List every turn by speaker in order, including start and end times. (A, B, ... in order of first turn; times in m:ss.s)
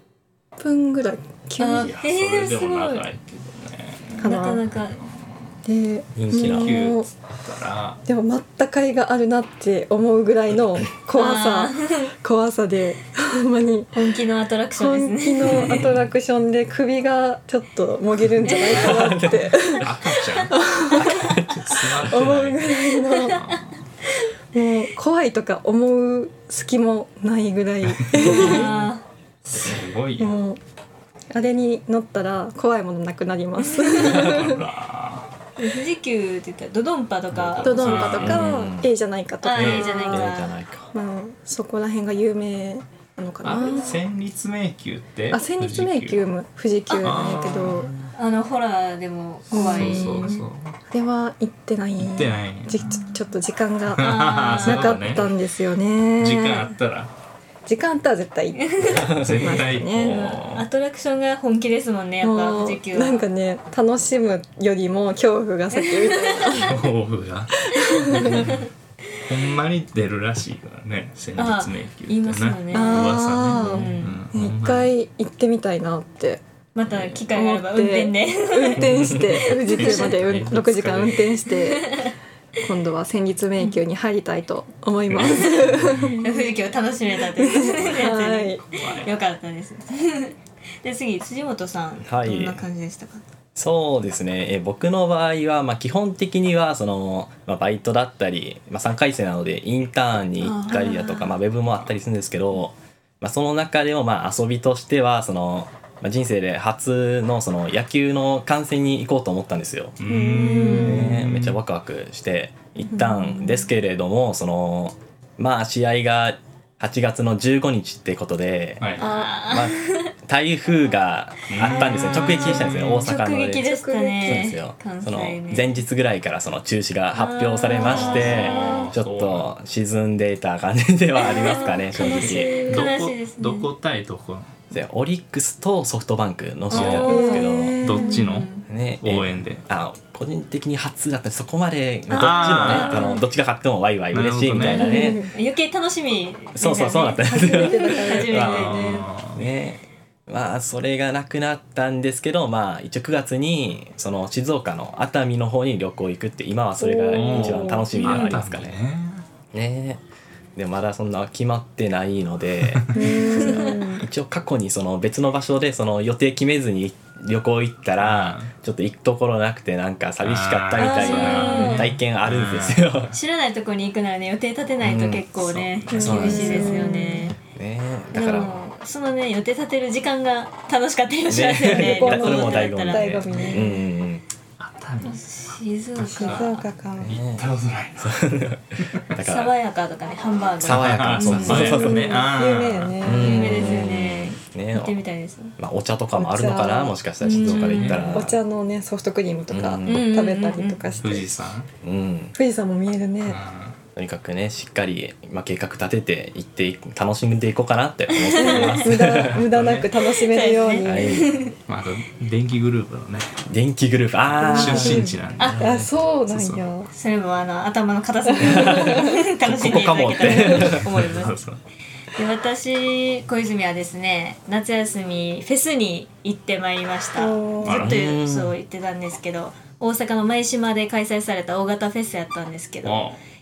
0:00.6-0:01.9 A
0:01.6-0:03.0 B
0:01.8-0:04.3 C
0:04.2-0:04.6 A
0:04.2-0:05.0 B
0:04.9-0:05.4 C
0:05.7-0:07.1 A
0:06.2-0:06.8 D
0:06.3-0:08.0 C
0:08.0-0:13.9 A
0:11.2-0:12.1 B
0:13.9-0:15.9 B
0:14.8-0:19.9 A
0:15.5-0:16.0 C
0:18.4-0:18.8 B
0:18.4-0:19.2 C
0:18.7-0:19.5 D
0:19.7-0:23.7 C
0:20.5-0:21.2 A
0:21.1-0:21.7 D
0:21.7-0:23.5 A
0:24.5-0:28.7 A
0:28.1-0:28.9 C
0:28.2-0:29.0 B
0:29.5-0:30.4 C
0:30.2-0:30.6 A
0:31.3-0:34.6 A
0:33.7-0:34.2 B
0:33.9-0:35.3 C
0:35.6-0:38.3 B
0:37.3-0:38.5 C
0:37.6-0:40.4 A
0:37.9-0:38.9 D
0:39.4-0:40.6 B
0:39.6-0:40.9 D
0:40.9-0:44.0 A
0:43.4-0:46.2 C
0:45.3-0:47.9 A
0:46.9-0:47.9 C
0:47.6-0:48.1 D
0:48.1-0:50.4 B
0:49.5-0:56.7 A
0:49.5-0:50.8 C
0:52.0-0:53.0 C
0:53.9-0:55.3 C
0:54.0-0:55.0 B
0:56.2-0:57.1 C
0:56.2-0:56.7 B
0:57.7-1:00.2 A
0:58.6-0:59.1 B
0:59.0-0:59.6 D
0:59.2-1:00.7 C
1:00.1-1:03.2 B
1:02.2-1:06.8 A
1:06.0-1:06.7 B
1:06.6-1:08.6 C
1:07.7-1:08.5 A
1:08.0-1:08.6 B
1:09.3-1:14.9 C
1:11.4-1:14.2 B
1:12.7-1:16.4 A
1:16.8-1:20.2 B
1:17.3-1:26.3 A
1:18.9-1:21.4 C
1:21.8-1:22.1 B
1:25.1-1:26.1 C
1:25.3-1:33.2 B
1:27.2-1:28.6 A
1:28.7-1:29.1 C
1:32.0-1:32.6 D
1:33.6-1:50.0 D
1:40.4-1:41.4 B
1:50.0-1:51.6 C
1:50.1-1:51.2 A
1:50.4-1:50.9 B
1:50.7-2:03.7 D
1:52.9-1:53.4 B
1:53.0-1:53.5 A
1:58.8-1:59.1 C
1:59.0-2:00.1 B
1:59.0-1:59.3 A
2:01.5-2:03.1 C
2:01.7-2:05.7 B
2:03.6-2:04.5 A
2:04.2-2:12.6 D
2:07.1-2:08.9 B
2:07.8-2:09.5 C
2:11.2-2:13.7 B
2:11.4-2:12.9 A
2:11.9-2:14.6 C
2:14.7-2:17.9 D
2:16.7-2:18.5 C
2:16.7-2:18.7 B
2:17.0-2:18.3 A
2:18.7-2:25.3 D
2:19.0-2:19.6 C
2:22.1-2:23.1 C
2:22.1-2:23.2 A
2:22.5-2:23.2 B
2:24.1-2:25.0 C
2:24.7-2:25.3 A
2:25.0-2:28.9 B
2:26.6-2:28.2 D
2:26.9-2:29.1 A
2:28.3-2:29.5 C
2:29.3-2:38.8 D
2:36.8-2:38.4 A
2:37.1-2:39.2 C
2:39.5-2:40.0 D
2:40.6-2:53.1 D
2:42.7-2:43.1 C
2:42.9-2:44.1 A
2:43.3-2:43.8 B
2:48.0-2:48.5 C
2:50.2-2:53.1 C
2:50.8-2:51.9 B
2:53.1-2:57.4 B
2:54.8-2:55.3 D
2:55.4-2:56.8 C
2:55.9-2:58.6 D
2:55.9-2:57.3 A
2:58.1-3:03.6 B
3:01.3-3:04.2 D
3:01.7-3:03.8 A
3:04.6-3:05.2 C
3:05.0-3:06.7 B
3:06.0-3:09.1 C
3:06.2-3:07.1 A
3:07.0-3:07.5 D
3:08.0-3:09.5 D
3:09.2-3:11.8 B
3:10.6-3:12.1 D
3:10.6-3:13.2 C
3:11.4-3:13.9 A
3:13.0-3:14.9 D
3:13.2-3:15.5 B
3:15.6-3:18.4 D
3:16.1-3:21.4 A
3:17.2-3:18.1 B
3:17.6-3:18.2 C
3:19.5-3:20.2 D
3:19.9-3:20.8 B
3:21.0-3:21.7 C
3:21.8-3:22.3 D
3:22.4-3:23.4 A
3:23.2-3:23.8 C
3:24.0-3:29.4 D
3:28.2-3:28.8 B
3:28.4-3:31.3 A
3:28.8-3:30.0 C
3:30.0-3:31.5 B
3:30.8-3:31.3 D
3:31.7-3:33.4 C
3:33.5-3:35.9 D
3:34.2-3:36.6 C
3:34.4-3:36.9 A
3:35.4-3:35.7 B
3:36.9-3:41.4 B
3:38.3-3:39.2 A
3:38.4-3:41.0 D
3:40.3-3:41.6 C
3:42.2-3:53.0 B
3:47.2-3:47.9 A
3:47.6-3:47.9 C
3:47.6-3:48.6 D
3:52.8-3:53.2 C